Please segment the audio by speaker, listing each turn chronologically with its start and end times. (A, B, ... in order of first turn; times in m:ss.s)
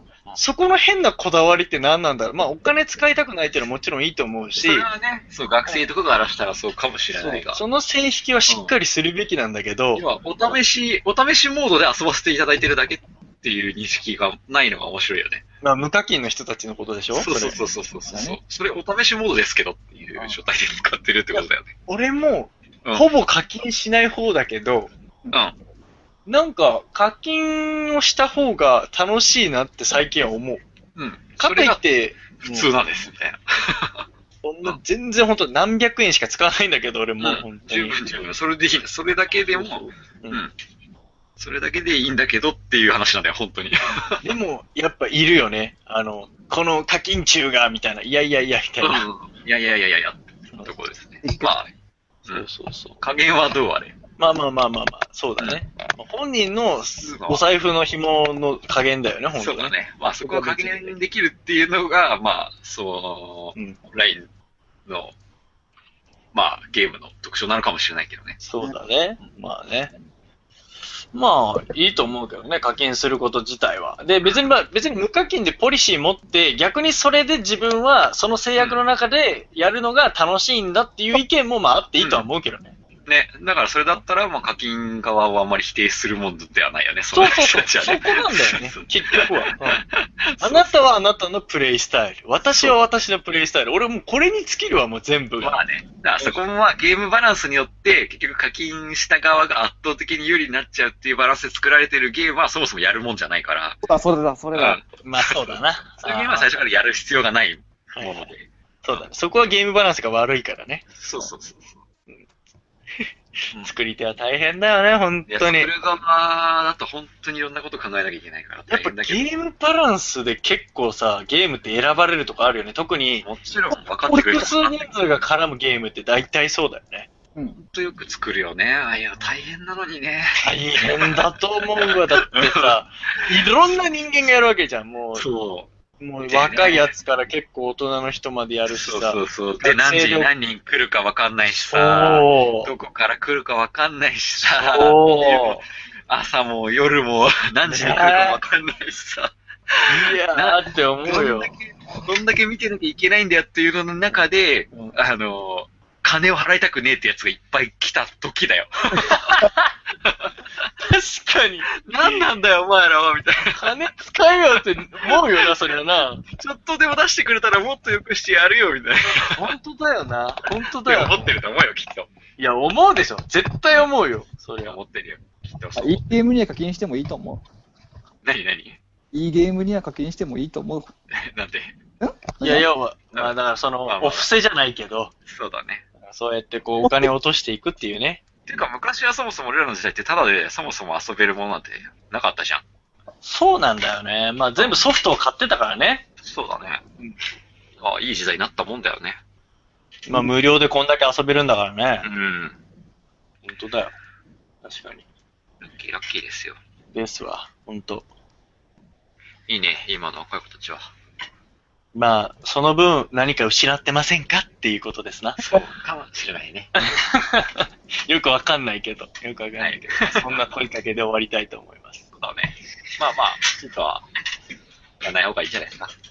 0:00.4-0:04.9 A
0:04.6-0:07.6 B
0:07.1-0:10.0 A
0:08.5-0:08.7 B
0:09.9-0:15.4 B
0:15.6-0:17.6 A
0:17.1-0:21.7 B
0:18.1-0:18.4 C
0:21.3-0:24.9 A
0:26.3-0:30.6 A
0:31.0-0:31.8 B
0:31.4-0:32.7 A
0:32.4-0:34.0 B
0:34.4-0:38.1 A
0:37.2-0:40.5 B
0:39.3-0:40.4 A
0:41.4-0:44.2 B
0:44.2-0:49.1 A
0:48.8-0:51.7 B
0:51.2-0:51.5 C
0:52.3-0:53.0 A
0:53.0-0:54.0 B
0:54.2-0:59.7 A
0:57.0-0:57.4 B
0:59.4-1:04.3 B
1:00.2-1:00.9 C
1:04.8-1:05.1 B
1:06.3-1:08.4 B
1:08.4-1:09.9 A
1:11.1-1:22.7 A
1:14.2-1:14.5 B
1:22.0-1:22.2 B
1:23.0-1:30.6 B
1:27.1-1:29.8 A
1:30.4-1:35.6 A
1:35.4-1:43.8 B
1:43.8-1:44.8 C
1:44.5-1:49.0 B
1:45.0-1:46.6 A
1:47.9-1:48.3 A
1:48.8-1:50.9 A
1:51.0-1:51.8 B
1:53.0-1:55.7 A
1:55.3-1:59.2 B
1:58.7-2:03.3 A
2:03.2-2:04.8 B
2:04.1-2:07.1 A
2:07.6-2:12.8 B
2:10.4-2:15.3 A
2:15.2-2:15.7 B
2:16.0-2:20.3 A
2:16.2-2:16.9 B
2:18.7-2:39.5 B
2:21.7-2:22.7 A
2:24.4-2:25.6 A
2:27.7-2:28.4 A
2:29.9-2:31.5 A
2:39.0-2:39.7 A
2:40.0-2:40.3 B
2:40.8-2:42.3 A
2:41.8-2:43.7 B
2:43.5-2:46.2 A
2:44.9-2:45.5 B
2:46.2-2:49.5 B
2:49.1-2:51.3 A
2:50.8-2:52.1 B
2:52.4-2:54.8 A
2:54.6-2:56.0 B
2:55.7-2:57.4 C
2:58.2-2:58.8 B
2:59.1-3:00.9 C
3:01.1-3:01.8 B
3:02.0-3:02.7 C
3:02.4-3:05.1 A
3:03.9-3:04.3 B
3:05.3-3:05.8 B
3:06.0-3:08.2 A
3:08.5-3:12.6 B
3:13.2-3:16.0 A
3:14.6-3:14.8 B
3:16.2-3:16.8 B
3:17.8-3:19.2 B
3:20.1-3:22.1 A
3:22.0-3:22.6 B
3:23.4-3:23.9 A
3:24.6-3:25.0 A
3:25.6-3:26.6 B
3:26.9-3:28.1 A
3:29.5-3:30.9 B
3:31.9-3:35.6 A
3:35.4-3:36.8 B
3:36.8-3:42.0 A
3:39.6-3:40.5 B
3:42.2-3:44.0 B
3:45.0-3:45.9 B